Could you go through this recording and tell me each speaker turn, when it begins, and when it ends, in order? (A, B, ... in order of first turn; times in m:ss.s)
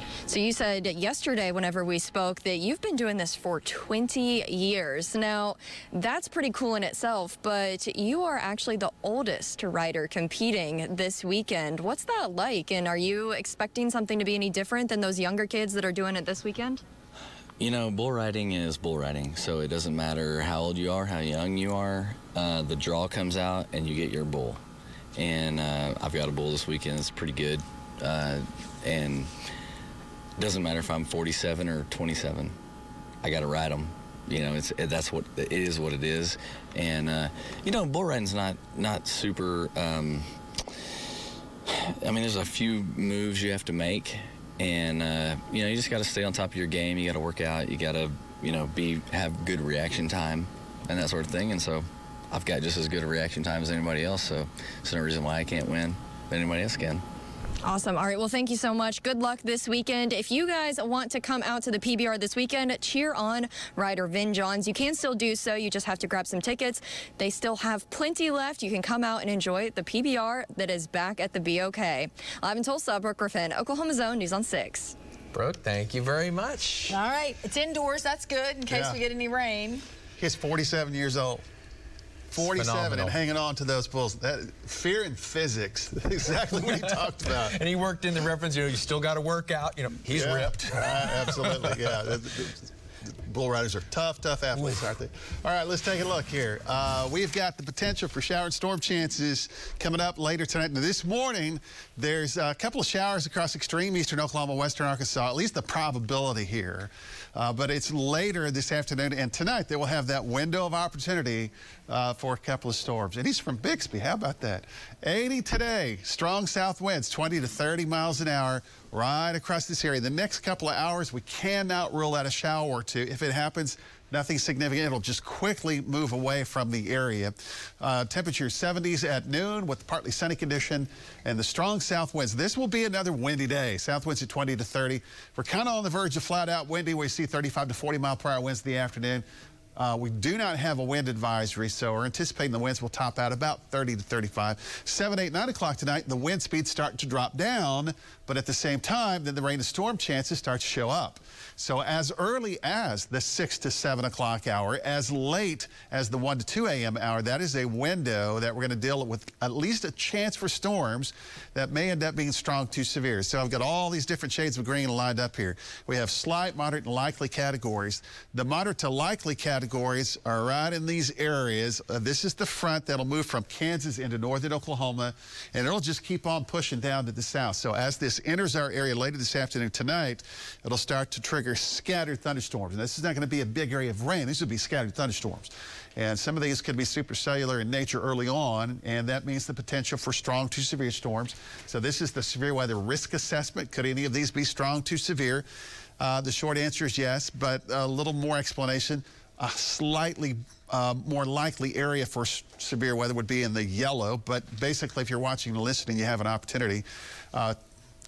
0:00.3-0:16.8 A
0:17.6-0:24.6 B
0:25.2-0:29.3 B
0:30.4-0:32.5 B
0:33.2-0:40.3 B
0:41.7-0:57.0 B
0:57.6-1:14.9 A
1:15.3-1:16.9 C
1:16.9-1:19.8 D
1:18.7-1:19.0 E
1:20.2-1:21.4 E
1:22.3-1:27.6 E
1:22.4-1:23.2 C
1:26.5-1:32.0 C
1:30.1-1:32.7 E
1:33.2-2:19.2 E
2:19.8-3:15.4 E
3:16.0-3:27.6 E